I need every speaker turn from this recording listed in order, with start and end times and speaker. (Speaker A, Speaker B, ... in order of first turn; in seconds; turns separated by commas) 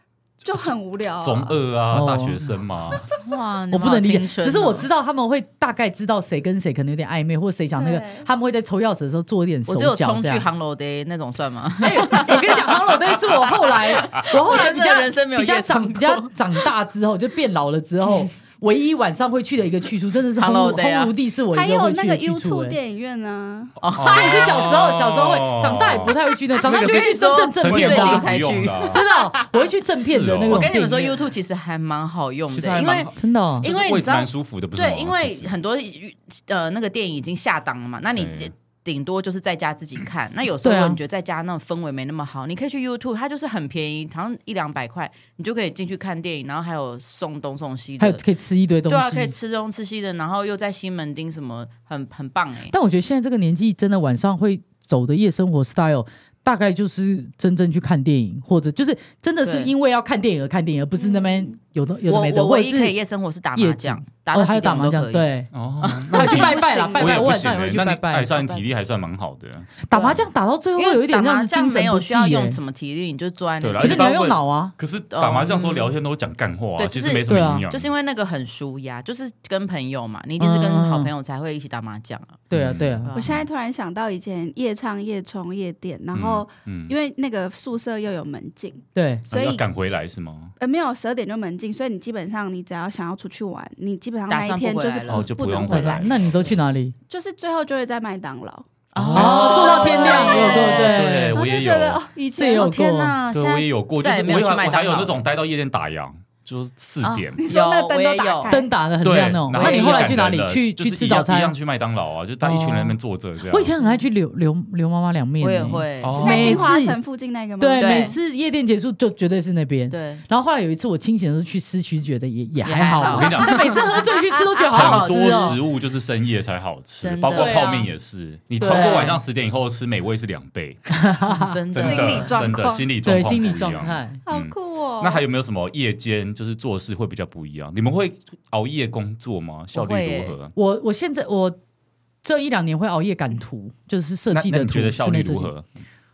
Speaker A: 0.4-1.6, Speaker B: 0.5-3.1, Speaker C: 1.9-2.5, Speaker D: 3.2-4.9, Speaker C: 3.7-10.5, Speaker A: 7.8-8.3, Speaker D: 9.7-12.8, Speaker C: 11.8-22.8, Speaker D: 13.4-16.4, Speaker D: 20.4-21.1, Speaker A: 21.5-23.8, Speaker D: 23.8-24.7, Speaker B: 23.9-29.0, Speaker C: 24.1-31.2, Speaker D: 26.6-29.5, Speaker B: 30.0-30.7, Speaker D: 30.5-33.1, Speaker B: 32.5-35.5, Speaker C: 33.2-33.6, Speaker D: 33.6-48.2, Speaker B: 38.1-38.5, Speaker C: 40.6-41.0, Speaker C: 48.0-49.3, Speaker D: 48.9-52.7, Speaker C: 52.7-63.0, Speaker D: 59.4-59.7, Speaker D: 62.1-65.2, Speaker C: 63.5-65.5, Speaker B: 65.5-70.2, Speaker D: 65.8-66.6, Speaker C: 66.1-68.3, Speaker A: 66.2-67.4, Speaker D: 68.4-68.6, Speaker C: 69.9-72.6, Speaker D: 69.9-70.2, Speaker D: 70.8-74.1, Speaker B: 73.6-77.9, Speaker C: 73.8-74.7, Speaker D: 75.1-75.9, Speaker D: 76.8-82.4, Speaker C: 77.3-77.7, Speaker C: 80.4-81.1, Speaker C: 82.5-83.1, Speaker B: 82.5-83.5, Speaker D: 83.1-83.3, Speaker A: 83.1-89.6, Speaker B: 86.1-86.9, Speaker C: 89.0-89.2, Speaker B: 89.3-90.5, Speaker A: 90.6-96.1, Speaker D: 94.3-95.3, Speaker B: 95.1-96.2, Speaker C: 95.7-97.0, Speaker A: 97.1-98.7, Speaker D: 98.9-101.0, Speaker B: 99.0-99.6, Speaker C: 99.1-101.4, Speaker A: 99.4-102.8, Speaker B: 100.6-102.0, Speaker C: 102.4-103.1, Speaker D: 102.6-105.2, Speaker B: 103.3-107.4, Speaker D: 107.0-108.6, Speaker A: 107.4-108.7, Speaker C: 108.5-111.5, Speaker B: 109.0-113.7, Speaker D: 109.5-110.2, Speaker C: 112.4-113.0, Speaker C: 113.5-117.0, Speaker D: 115.4-116.6, Speaker B: 116.0-116.5, Speaker A: 116.1-118.2, Speaker C: 117.6-125.6, Speaker D: 117.8-118.1, Speaker D: 119.9-120.2, Speaker D: 122.6-123.8, Speaker B: 123.0-123.7, Speaker A: 124.3-125.1, Speaker D: 124.6-125.6, Speaker B: 124.7-131.1, Speaker D: 127.0-127.8, Speaker C: 127.3-127.9, Speaker C: 128.6-129.2, Speaker D: 128.6-129.2, Speaker C: 130.9-131.5, Speaker D: 131.3-132.4, Speaker B: 131.7-140.5, Speaker A: 131.7-132.9, Speaker C: 133.0-134.2, Speaker A: 134.3-135.2, Speaker D: 139.7-140.4, Speaker C: 140.6-141.6, Speaker C: 142.2-145.5, Speaker B: 144.3-145.7